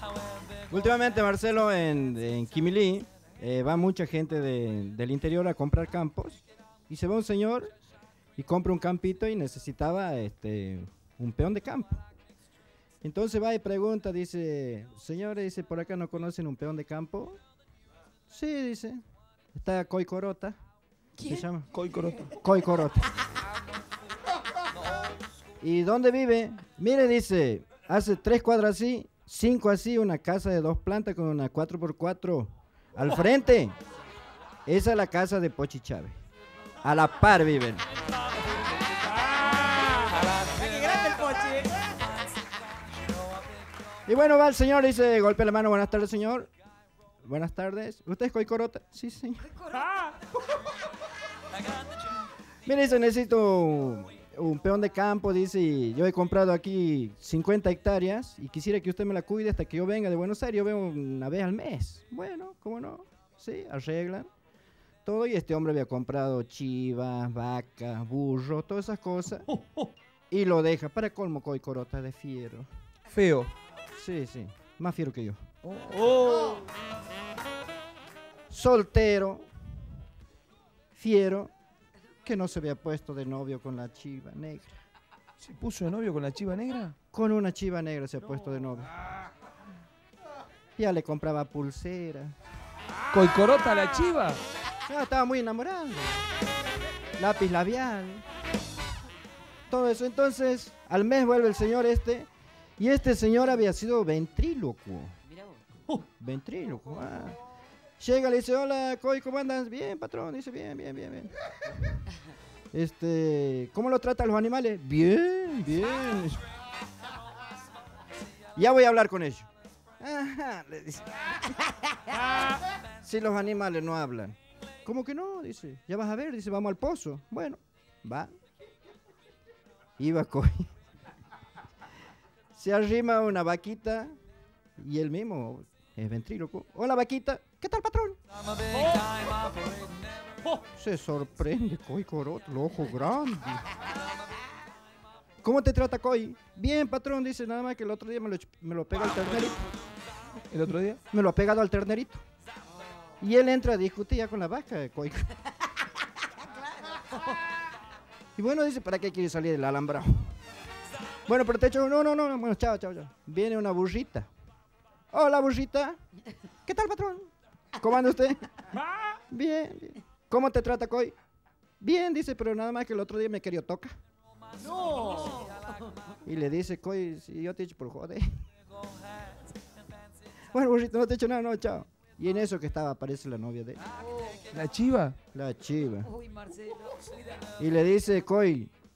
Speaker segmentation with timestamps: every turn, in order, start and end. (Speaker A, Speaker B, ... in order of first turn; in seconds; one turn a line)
Speaker A: 0.7-7.7
Speaker A: 8.4-12.0
Speaker A: 13.0-17.4
Speaker A: 18.3-19.0
Speaker A: 19.5-20.6
Speaker A: 21.2-21.7
Speaker B: 21.7-22.4
Speaker A: 22.3-23.1
Speaker A: 25.6-33.8
Speaker A: 34.7-36.2
Speaker A: 36.8-37.9
Speaker B: 39.5-40.3
Speaker C: 40.5-41.8
Speaker A: 44.0-46.5
Speaker A: 47.2-49.6
Speaker B: 49.8-50.1
Speaker A: 52.6-64.3
Speaker A: 65.0-69.5
Speaker A: 70.3-72.7
Speaker B: 73.1-73.5
Speaker A: 74.0-75.4
Speaker B: 75.6-76.6
Speaker A: 78.5-79.5
Speaker A: 80.9-81.5
Speaker A: 82.2-84.8
Speaker B: 85.4-86.9
Speaker A: 87.1-89.0
Speaker A: 90.8-92.3
Speaker B: 93.1-94.4
Speaker A: 94.8-96.2
Speaker A: 97.2-98.2
Speaker A: 99.7-105.2
Speaker A: 106.2-107.4
Speaker A: 108.0-111.3
Speaker A: 112.7-116.5
Speaker A: 118.5-119.5
Speaker A: 120.0-121.6
Speaker A: 123.0-128.3
Speaker A: 130.0-130.7
Speaker A: 132.5-134.2
Speaker A: 134.8-138.2
Speaker B: 138.5-140.0
Speaker A: 140.7-143.8
Speaker A: 145.4-149.7
Speaker B: 150.5-151.0
Speaker A: 151.1-152.2
Speaker A: 153.2-155.4
Speaker A: 158.3-160.3
Speaker A: 161.2-164.3
Speaker A: 165.1-166.0
Speaker A: 166.7-168.7
Speaker A: 169.3-171.1
Speaker A: 171.8-173.9
Speaker C: 174.8-175.3
Speaker A: 176.2-178.4
Speaker A: 180.5-183.8
Speaker B: 184.5-185.2
Speaker A: 185.3-186.2
Speaker C: 186.3-186.9
Speaker A: 187.6-188.7